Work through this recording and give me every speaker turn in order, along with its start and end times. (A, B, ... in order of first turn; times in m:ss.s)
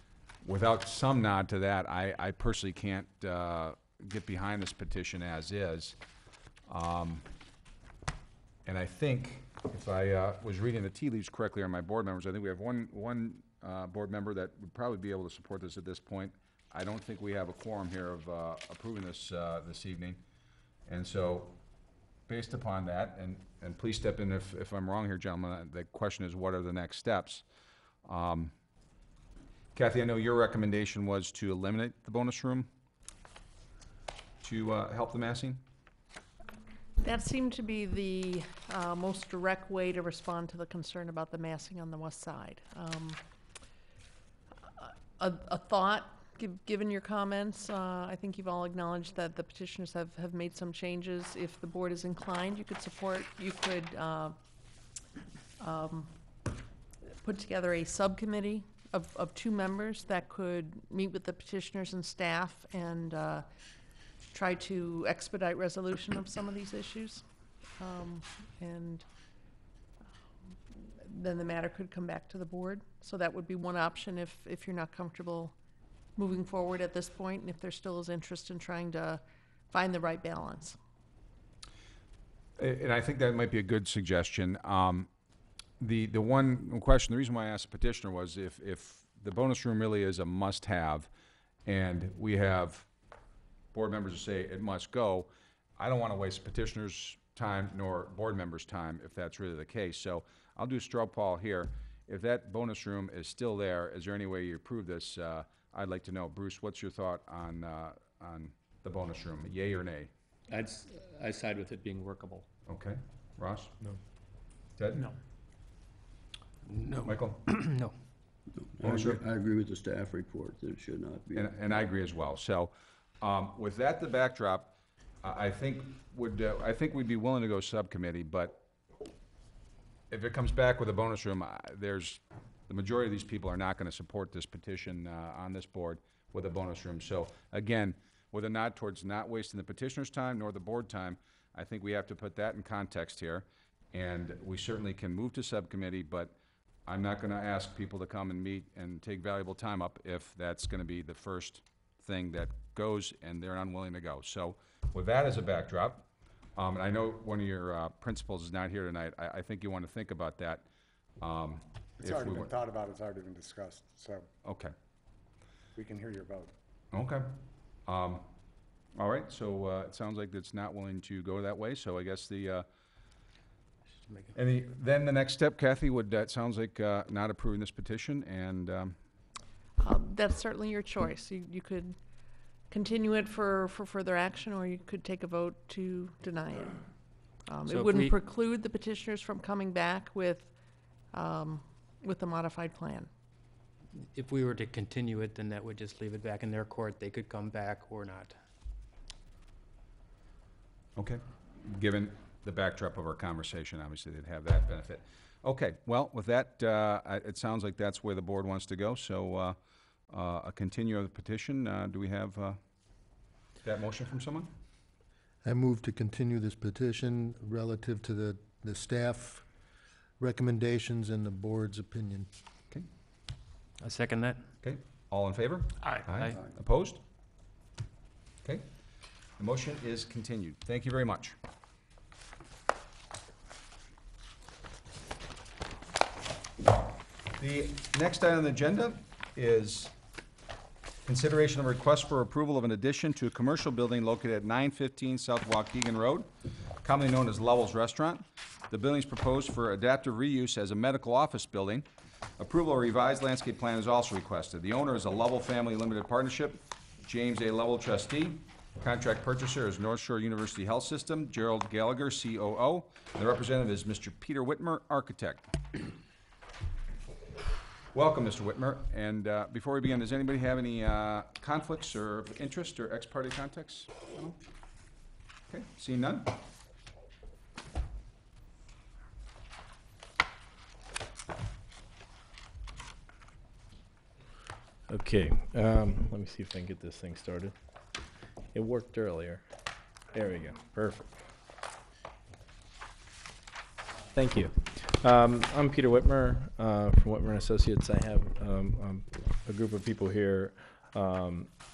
0:00.4-0:06.0 A
0:06.7-0:07.3 A
0:08.7-0:20.2 A
0:20.9-0:21.6 A
0:22.3-0:27.4 A
0:28.0-0:28.5 A
0:29.8-0:32.7 A
0:34.4-0:35.6 A
0:37.0-0:43.2 B
0:44.8-0:54.4 B
0:55.6-0:56.1 B
0:57.2-1:03.4 B
1:04.3-1:07.2 B
1:07.8-1:09.0 B
1:10.7-1:15.6 B
1:16.2-1:20.8 B
1:22.6-1:25.1 A
1:25.8-1:31.1 A
1:31.7-1:32.9 A
1:33.7-1:50.1 A
1:50.5-1:52.5 C
1:52.7-1:53.7 A
1:54.8-1:55.1 A
1:56.7-1:57.9 D
1:57.0-1:57.5 A
1:58.7-2:01.5 E
1:58.8-1:59.2 A
2:01.4-2:04.7 A
2:05.2-2:08.6 A
2:10.1-2:40.7 A
2:41.2-2:42.5 A
2:42.0-2:44.3 F
2:44.4-2:44.7 A
2:45.8-2:46.5 F
2:46.9-2:48.3 A
2:49.0-2:52.7 A
2:54.4-2:59.0 A
2:59.8-3:02.0 B
3:02.7-3:06.8 B
3:07.5-3:10.5 B
3:07.7-3:08.1 D
3:11.1-3:13.1 B
3:14.0-3:18.4 D
3:21.0-3:29.6 A
3:30.1-3:32.6 A
3:33.6-3:34.5 A
3:35.4-3:39.5 G
3:40.2-3:42.3 G
3:43.8-3:44.5 D
3:44.6-3:47.0 A
3:49.4-3:51.4 A
3:57.4-3:59.9 A
4:01.1-4:06.3 A
4:06.8-4:11.9 A
4:12.4-4:25.6 A
4:27.9-4:34.4 A
4:35.5-4:36.4 A
4:44.9-4:47.5 H
4:48.5-4:49.4 H
4:50.1-4:51.2 H
4:54.1-5:01.5 H